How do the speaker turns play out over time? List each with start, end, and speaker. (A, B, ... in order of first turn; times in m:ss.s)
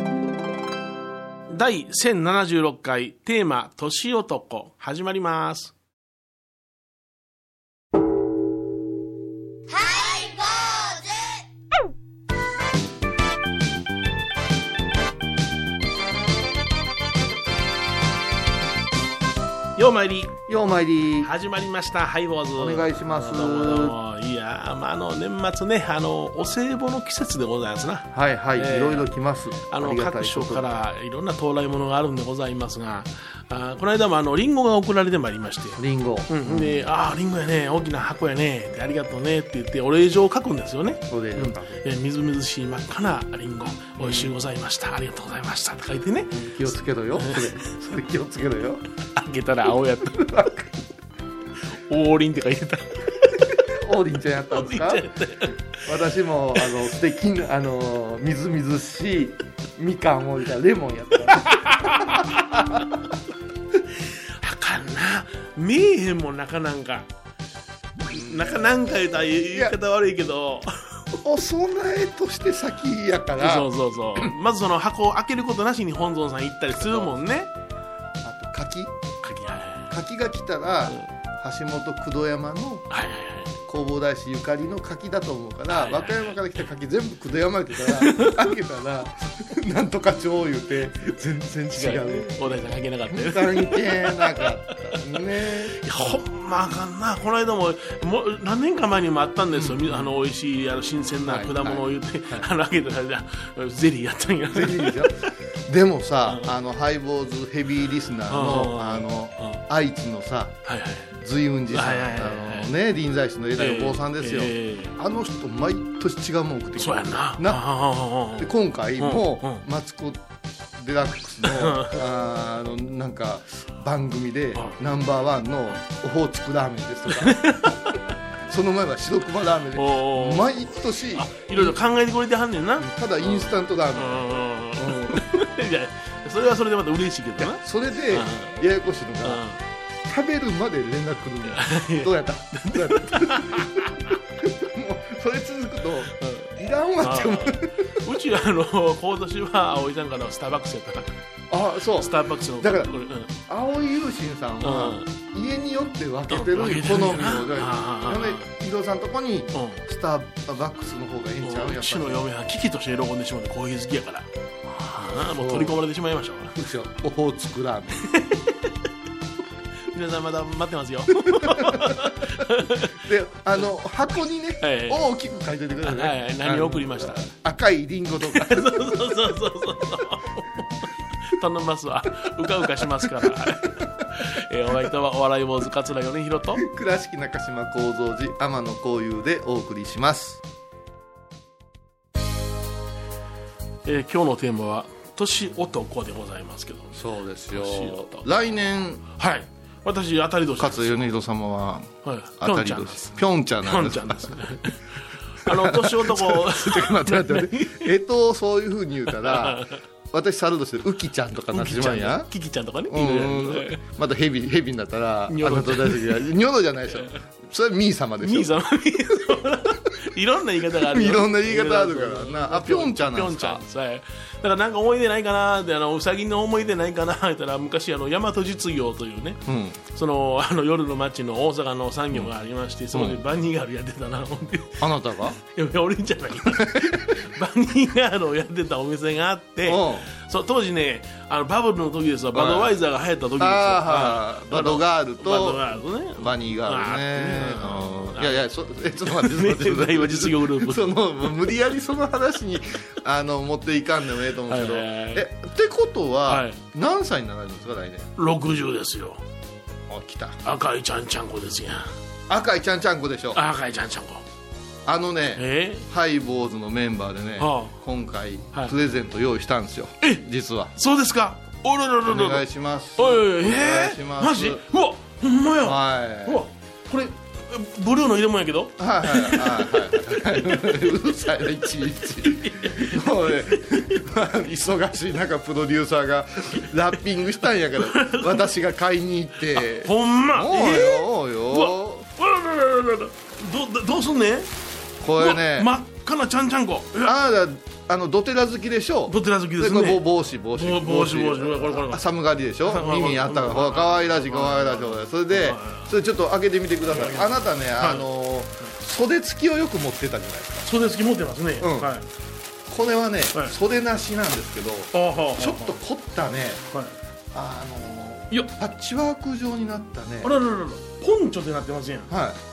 0:01.5-0:05.7 A
0:19.8-0:20.4 A
0:20.5-0:21.3 B
0:21.2-0:29.1 A
0:22.6-0:24.0 B
0:28.1-0:30.7 B
0:29.7-0:46.3 A
0:35.8-0:36.8 B
0:41.1-0:41.8 B
0:44.0-0:44.3 B
0:46.3-0:48.8 B
0:47.2-0:47.5 A
0:49.2-0:50.3 A
0:50.2-0:50.7 B
0:51.9-0:53.6 A
0:53.6-0:55.1 B
0:54.5-0:55.6 A
0:55.8-1:02.8 B
1:01.3-1:02.6 A
1:04.0-1:07.1 A
1:08.1-1:11.0 A
1:11.2-1:13.7 B
1:13.4-1:17.5 A
1:16.7-1:17.1 B
1:18.2-1:18.9 B
1:19.2-1:19.9 A
1:19.9-1:22.8 B
1:22.9-1:23.5 A
1:23.6-1:32.4 B
1:25.7-1:26.4 A
1:27.8-1:28.5 A
1:31.7-1:35.0 A
1:33.1-1:36.1 B
1:35.8-1:45.3 A
1:39.5-1:40.1 B
1:41.3-1:42.4 B
1:44.5-1:50.5 B
1:46.3-1:46.5 A
1:48.3-1:49.6 A
1:50.6-1:51.1 A
1:51.2-1:57.6 B
1:51.7-1:52.7 A
1:53.6-1:55.0 A
1:56.8-1:59.6 A
1:58.4-2:00.2 B
2:00.8-2:07.4 B
2:01.4-2:02.0 A
2:07.1-2:07.8 A
2:08.5-2:11.8 B
2:09.7-2:10.5 A
2:11.1-2:18.6 A
2:12.8-2:15.2 B
2:17.4-2:19.4 B
2:19.2-2:19.6 A
2:20.1-2:28.0 B
2:21.4-2:24.1 A
2:26.1-2:31.1 A
2:31.5-2:32.9 B
2:31.9-2:33.3 A
2:33.5-2:42.2 B
2:34.6-2:35.1 A
2:36.3-2:38.5 A
2:39.5-2:39.8 A
2:41.4-2:46.6 A
2:45.3-2:45.7 B
2:46.5-2:48.0 B
2:48.0-2:48.8 A
2:49.9-2:52.9 A
2:51.2-2:52.0 B
2:52.9-2:59.1 B
2:54.6-2:55.1 A
2:55.8-2:57.3 A
2:58.2-3:06.6 A
3:02.8-3:03.8 B
3:06.6-3:10.4 B
3:13.8-3:17.0 A
3:16.9-3:19.0 B
3:17.5-3:18.3 A
3:19.1-3:21.1 A
3:20.6-3:24.4 B
3:22.0-3:24.9 A
3:25.4-3:27.9 A
3:25.4-3:32.3 B
3:29.1-3:29.8 A
3:31.5-3:33.8 A
3:32.9-3:38.5 B
3:35.3-3:36.3 A
3:36.9-3:37.2 A
3:38.2-4:08.4 A
3:40.8-3:43.6 B
3:49.4-3:49.8 B
3:52.9-3:53.2 B
3:54.8-3:55.4 B
3:56.6-3:57.2 B
3:59.6-4:00.1 B
4:02.3-4:02.7 B
4:03.4-4:18.1 B
4:09.0-4:11.5 A
4:14.5-4:15.2 A
4:16.2-4:16.6 A
4:18.2-4:19.2 A
4:19.9-4:20.4 B
4:20.4-4:21.9 A
4:22.3-4:23.4 B
4:23.3-4:24.2 A
4:24.8-4:30.7 B
4:25.4-4:25.8 A
4:27.4-4:27.7 A
4:30.8-4:32.4 A
4:32.1-4:34.6 B
4:33.0-4:40.6 A
4:35.6-4:36.4 B
4:38.8-4:52.0 B
4:42.1-4:44.0 A
4:47.7-4:48.5 A
4:49.5-4:54.5 A
4:55.0-4:55.7 B
4:55.2-4:57.2 A
4:57.0-5:10.7 B
4:59.1-5:02.0 A
5:02.6-5:05.9 A
5:06.9-5:08.1 A
5:10.6-5:12.0 A
5:11.6-5:11.9 B
5:12.7-5:16.6 B
5:14.9-5:15.7 A
5:17.3-5:20.3 B
5:20.2-5:22.1 A
5:22.1-5:22.4 B